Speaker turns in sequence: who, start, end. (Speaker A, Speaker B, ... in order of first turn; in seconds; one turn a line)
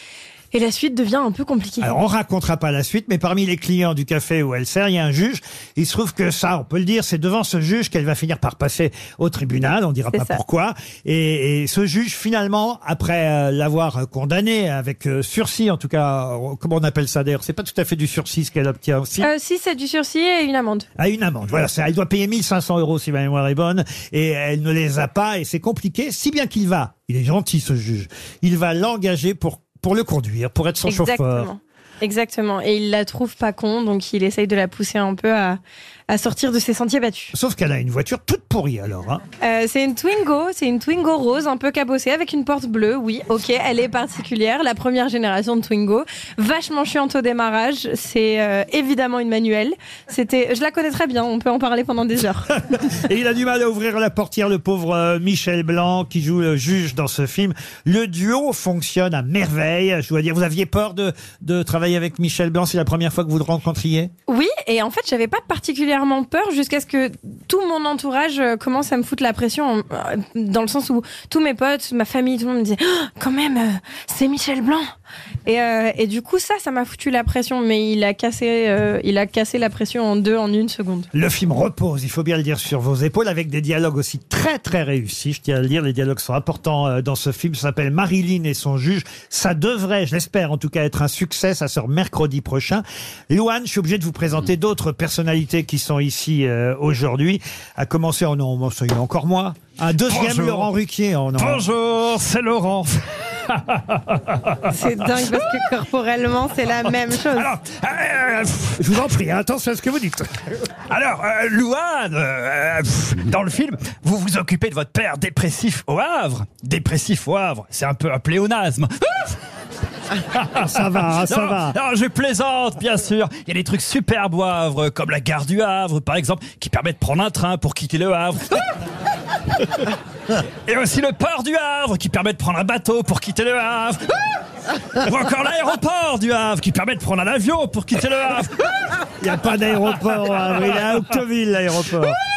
Speaker A: 0.5-1.9
Speaker B: 1.8-19.3
Speaker A: 10.1-10.4
Speaker A: 19.2-20.9
Speaker B: 21.0-31.5
Speaker A: 30.9-37.3
Speaker B: 37.3-39.2
Speaker A: 39.4-52.5
Speaker B: 52.7-64.1
Speaker A: 64.3-74.9
Speaker A: 75.5-81.1
Speaker B: 81.1-101.7
Speaker C: 100.1-100.7
Speaker C: 101.4-104.5
Speaker A: 104.7-107.5
Speaker C: 105.2-105.6
Speaker C: 107.3-108.7
Speaker B: 108.7-110.3
Speaker C: 110.9-119.3
Speaker B: 120.5-121.8
Speaker C: 121.2-128.6
Speaker C: 130.7-134.2
Speaker C: 135.0-138.6
Speaker B: 139.2-142.2